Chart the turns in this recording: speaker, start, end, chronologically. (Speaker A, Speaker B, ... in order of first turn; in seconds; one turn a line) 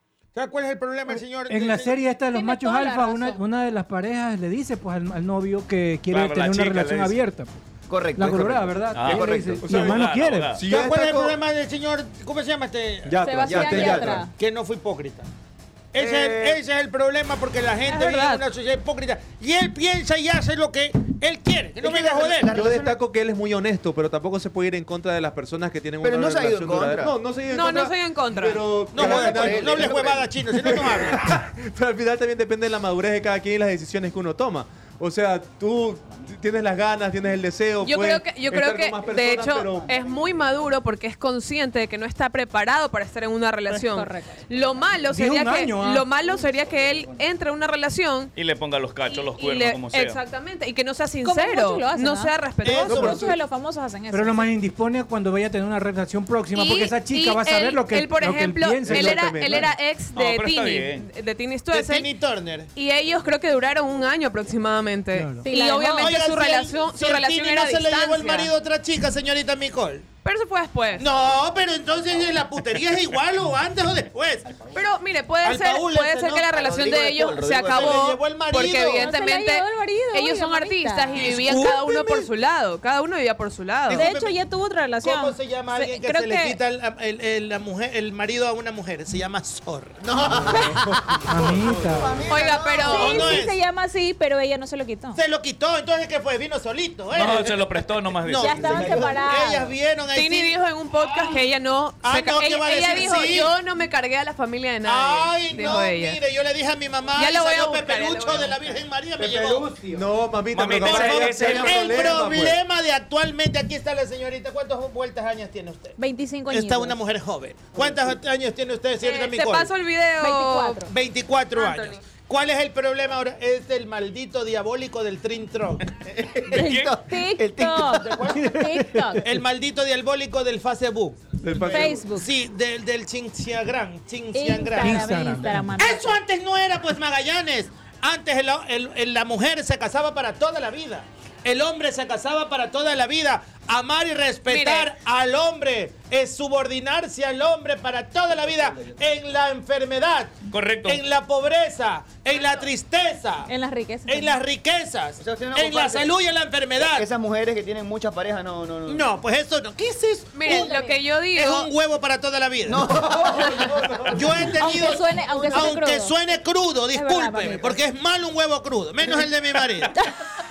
Speaker A: 0.3-2.0
Speaker B: 1.1-7.6
Speaker C: 2.2-3.4
Speaker D: 6.1-7.2
Speaker E: 7.9-9.7
Speaker B: 8.2-10.6
Speaker D: 8.9-10.6
Speaker F: 9.6-10.0
Speaker F: 10.5-11.3
Speaker A: 10.6-13.2
Speaker F: 13.1-14.3
Speaker C: 13.3-14.3
Speaker G: 13.3-13.7
Speaker E: 13.5-14.1
Speaker A: 13.8-15.3
Speaker A: 15.9-22.5
Speaker E: 15.9-16.6
Speaker G: 17.9-18.4
Speaker E: 21.8-23.0
Speaker F: 22.5-29.9
Speaker E: 26.0-27.1
Speaker G: 27.5-29.3
Speaker A: 28.9-31.2
Speaker E: 29.0-30.3
Speaker F: 30.6-39.9
Speaker G: 37.8-48.3
Speaker C: 43.7-44.4
Speaker B: 45.1-46.1
Speaker D: 48.3-50.2
Speaker G: 49.1-53.3
Speaker C: 51.2-52.3
Speaker A: 52.6-53.3
Speaker C: 52.9-54.5
Speaker B: 54.1-59.6
Speaker G: 56.5-62.1
Speaker F: 58.8-59.7
Speaker D: 60.1-61.0
Speaker A: 61.7-62.7
Speaker G: 62.7-68.5
Speaker B: 65.1-65.5
Speaker C: 65.4-66.1
Speaker A: 66.0-70.0
Speaker G: 70.2-71.1
Speaker A: 71.0-74.5
Speaker G: 74.7-84.1
Speaker A: 75.4-76.4
Speaker E: 76.5-78.0
Speaker A: 77.6-79.1
Speaker C: 79.0-81.6
Speaker A: 81.2-82.2
Speaker A: 83.9-84.4
Speaker C: 83.9-86.6
Speaker A: 85.0-90.5
Speaker B: 91.3-92.2
Speaker E: 92.0-93.2
Speaker G: 92.3-93.4
Speaker C: 92.9-95.2
Speaker A: 92.9-93.5
Speaker A: 95.1-100.5
Speaker D: 97.1-99.2
Speaker C: 98.3-99.7
Speaker G: 100.1-106.2
Speaker A: 102.0-103.5
Speaker A: 104.8-109.8
Speaker G: 107.1-108.7
Speaker F: 109.2-112.6
Speaker D: 110.5-112.2
Speaker A: 110.7-116.0
Speaker C: 116.0-117.0
Speaker A: 116.5-119.7
Speaker G: 119.0-120.9
Speaker C: 120.2-120.9
Speaker A: 120.9-125.8
Speaker G: 121.5-122.0
Speaker E: 126.2-128.1
Speaker D: 126.5-127.0
Speaker C: 126.5-129.3
Speaker A: 128.0-128.3
Speaker B: 128.3-129.2
Speaker A: 129.2-135.1
Speaker F: 131.4-132.1
Speaker C: 131.6-132.3
Speaker C: 134.3-136.2
Speaker B: 134.8-135.7
Speaker A: 135.8-153.5
Speaker G: 144.5-144.9
Speaker E: 148.5-148.9
Speaker D: 150.5-151.0
Speaker C: 153.5-154.3
Speaker A: 154.1-157.1
Speaker E: 155.2-156.1
Speaker E: 156.8-159.1
Speaker A: 158.9-162.9
Speaker G: 160.3-161.7
Speaker C: 160.5-160.9
Speaker E: 162.7-164.4
Speaker A: 164.1-169.9
Speaker C: 164.6-166.1
Speaker C: 166.9-167.8